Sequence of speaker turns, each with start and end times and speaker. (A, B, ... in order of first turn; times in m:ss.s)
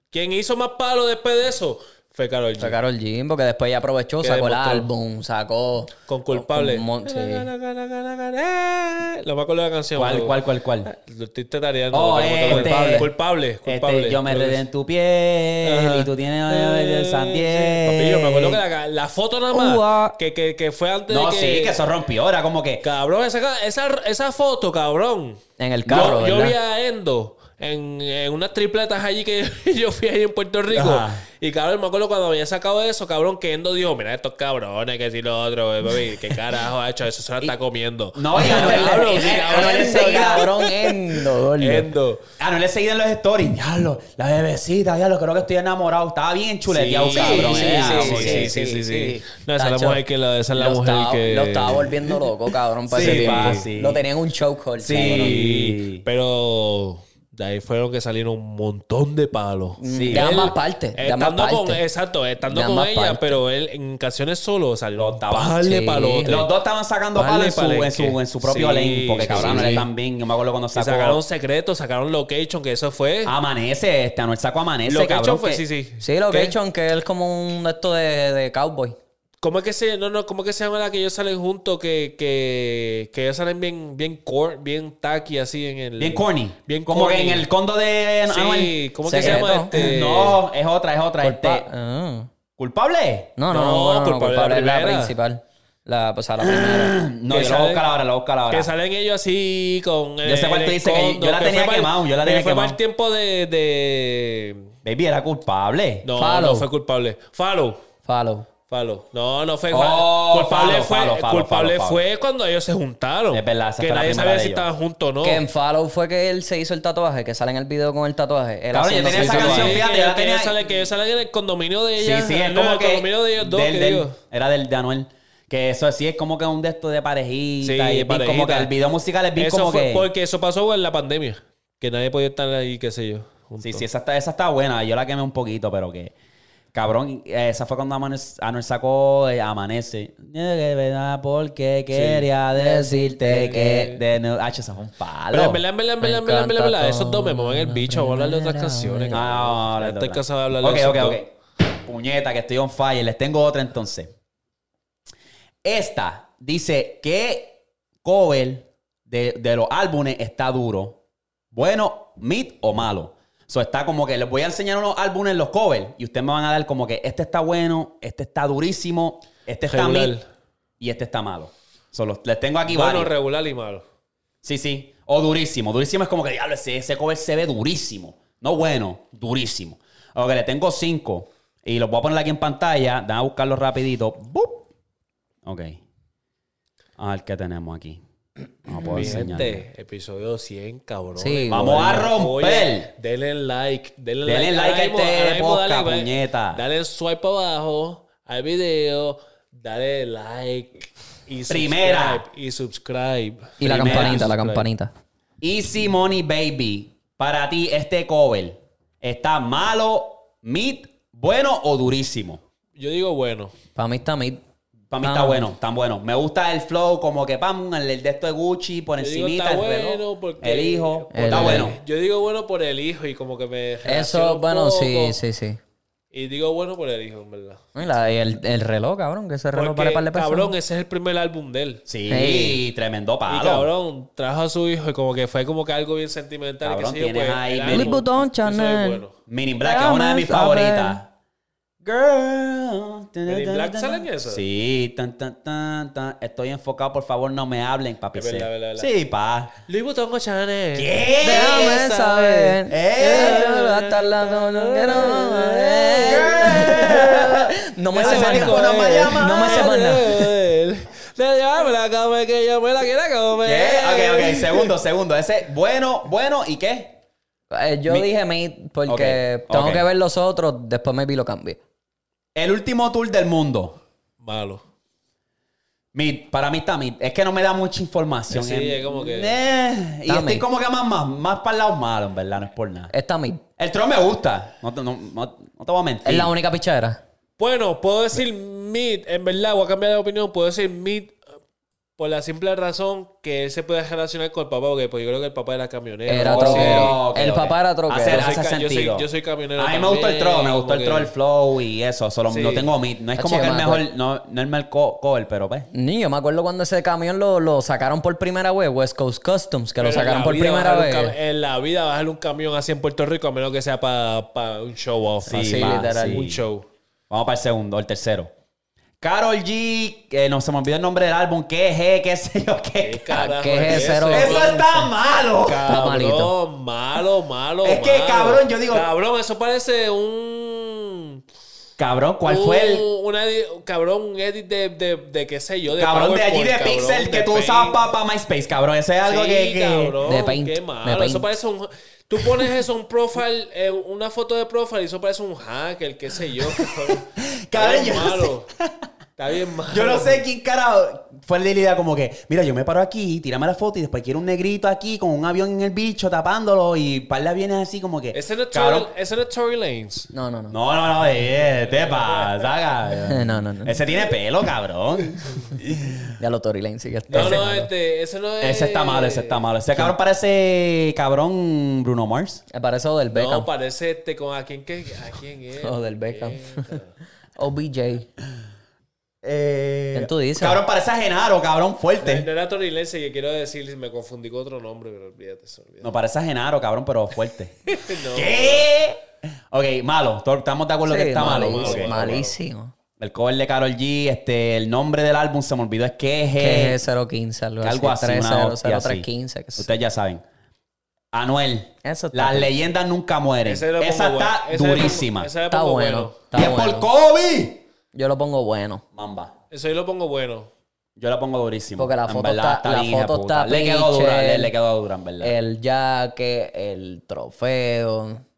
0:00.1-0:02.8 A
0:02.6-0:07.5 B
0:04.2-0:04.9 A
0:06.1-0:14.6 A
0:10.0-0:10.9 C
0:11.9-0:13.1 C
0:12.5-0:13.1 B
0:13.6-0:18.6 C
0:15.6-0:21.8 A
0:19.5-0:20.2 B
0:21.1-0:22.8 C
0:22.8-0:42.2 A
0:25.6-0:26.6 B
0:30.7-0:31.2 C
0:38.1-0:40.4 C
0:38.4-0:41.9 B
0:42.4-0:48.5 C
0:46.7-0:52.0 A
0:47.1-0:50.0 B
0:50.5-0:55.4 B
0:52.9-0:54.0 C
0:52.9-0:53.7 A
0:54.8-0:56.0 C
0:55.0-1:06.5 A
0:59.8-1:01.8 B
0:59.9-1:00.5 C
1:02.4-1:03.4 B
1:05.0-1:05.6 C
1:05.5-1:06.4 B
1:06.3-1:11.2 C
1:07.2-1:09.9 A
1:09.3-1:09.9 B
1:10.8-1:13.4 A
1:13.2-1:15.6 C
1:14.9-1:16.6 A
1:16.0-1:19.0 B
1:19.4-1:27.5 A
1:26.0-1:31.7 C
1:28.3-1:30.4 A
1:29.1-1:29.7 B
1:31.2-1:32.3 B
1:32.6-1:33.3 C
1:33.4-1:37.0 B
1:33.5-1:35.1 A
1:36.4-1:38.7 C
1:37.3-1:37.8 A
1:38.5-1:44.7 A
1:40.2-1:42.8 C
1:44.8-1:46.1 C
1:46.0-1:47.8 A
1:46.2-1:46.7 B
1:48.0-1:48.5 B
1:48.7-1:55.4 A
1:49.7-1:52.0 C
1:53.3-1:54.7 C
1:55.2-1:59.8 B
1:58.7-2:00.5 C
1:59.0-2:04.2 A
2:02.0-2:10.1 C
2:07.6-2:08.7 A
2:09.4-2:13.8 A
2:13.6-2:16.1 C
2:16.7-2:25.6 C
2:21.9-2:22.3 A
2:22.5-2:23.9 B
2:23.3-2:24.0 A
2:25.3-2:31.2 A
2:26.0-2:29.3 B
2:29.1-2:34.1 C
2:35.6-2:41.0 C
2:41.5-2:50.2 C
2:49.7-2:50.2 A
2:50.8-2:53.1 C
2:52.7-2:53.8 A
2:54.4-3:04.7 C
3:05.4-3:05.8 C
3:07.0-3:08.0 C
3:08.6-3:09.6 C
3:08.8-3:24.7 A
3:11.2-3:12.0 B
3:11.5-3:12.9 C
3:14.2-3:16.6 C
3:21.5-3:22.2 C
3:23.6-3:24.9 B
3:23.6-3:24.3 C
3:25.4-3:32.4 C
3:32.8-3:33.5 A
3:33.8-3:34.4 B
3:34.9-3:41.8 C
3:35.0-3:35.5 B
3:39.0-3:45.2 A
3:41.1-3:41.8 B
3:43.8-3:45.6 B
3:46.1-3:47.7 A
3:47.8-3:50.6 B
3:49.5-3:51.8 A
3:51.9-3:53.7 C
3:52.1-3:52.6 B
3:53.3-3:59.2 A
3:56.6-3:58.0 C
3:57.7-3:59.0 B
3:59.3-4:01.1 C
3:59.6-4:01.0 B
4:01.8-4:09.5 C
4:03.3-4:04.4 A
4:08.1-4:08.9 A
4:09.7-4:17.2 A
4:10.8-4:11.8 C
4:11.2-4:20.3 B
4:12.7-4:13.5 C
4:16.0-4:19.7 C
4:18.0-4:24.7 A
4:23.4-4:27.0 C
4:27.5-4:31.6 B
4:28.9-4:29.8 C
4:32.4-4:33.8 C
4:34.2-4:34.6 A
4:35.9-4:42.9 C
4:38.3-4:39.4 A
4:40.1-4:40.5 B
4:42.9-4:43.4 B
4:43.6-4:46.3 C
4:46.0-4:47.0 B
4:47.4-4:51.2 A
4:52.0-4:57.0 A
4:56.1-4:58.3 B
4:56.2-5:05.7 C
4:58.0-5:01.1 A
5:02.3-5:02.7 A
5:03.2-5:03.9 B
5:05.7-5:11.1 B
5:09.8-5:16.7 A
5:15.2-5:16.4 C
5:15.3-5:16.2 B
5:17.1-5:18.3 C
5:19.0-5:25.6 C
5:22.8-5:24.6 A
5:23.1-5:24.8 B
5:25.4-5:31.2 A
5:25.6-5:26.3 B
5:27.6-5:28.9 C
5:31.8-5:32.9 C
5:32.2-5:37.8 A
5:35.8-5:40.0 C
5:39.0-5:48.5 A
5:40.0-5:41.3 B
5:46.6-5:48.7 C
5:49.2-5:50.2 A
5:49.7-5:58.9 C
5:58.1-6:00.1 A
6:00.1-6:00.6 B
6:00.5-6:06.1 C
6:01.6-6:02.5 A
6:03.0-6:03.8 B
6:06.2-6:07.7 B
6:07.1-6:09.5 A
6:07.1-6:07.4 C
6:08.4-6:12.4 C
6:12.5-6:13.5 B
6:13.1-6:16.9 A
6:15.6-6:16.8 B
6:17.4-6:18.1 B
6:19.2-6:22.3 C
6:19.9-6:20.6 B
6:22.0-6:25.9 A
6:25.8-6:32.2 C
6:27.7-6:28.7 A
6:30.8-6:32.7 B
6:31.2-6:32.4 A
6:33.0-6:36.8 C
6:36.4-6:39.7 B
6:37.6-6:40.2 C
6:41.1-6:45.3 C
6:41.8-6:42.5 B
6:43.5-6:46.2 A
6:45.5-6:46.9 B
6:46.3-6:47.6 C
6:47.9-6:48.8 B
6:49.0-6:49.3 C
6:49.5-6:50.5 A
6:51.0-6:55.4 C
6:51.8-6:54.5 B
6:55.2-6:58.2 B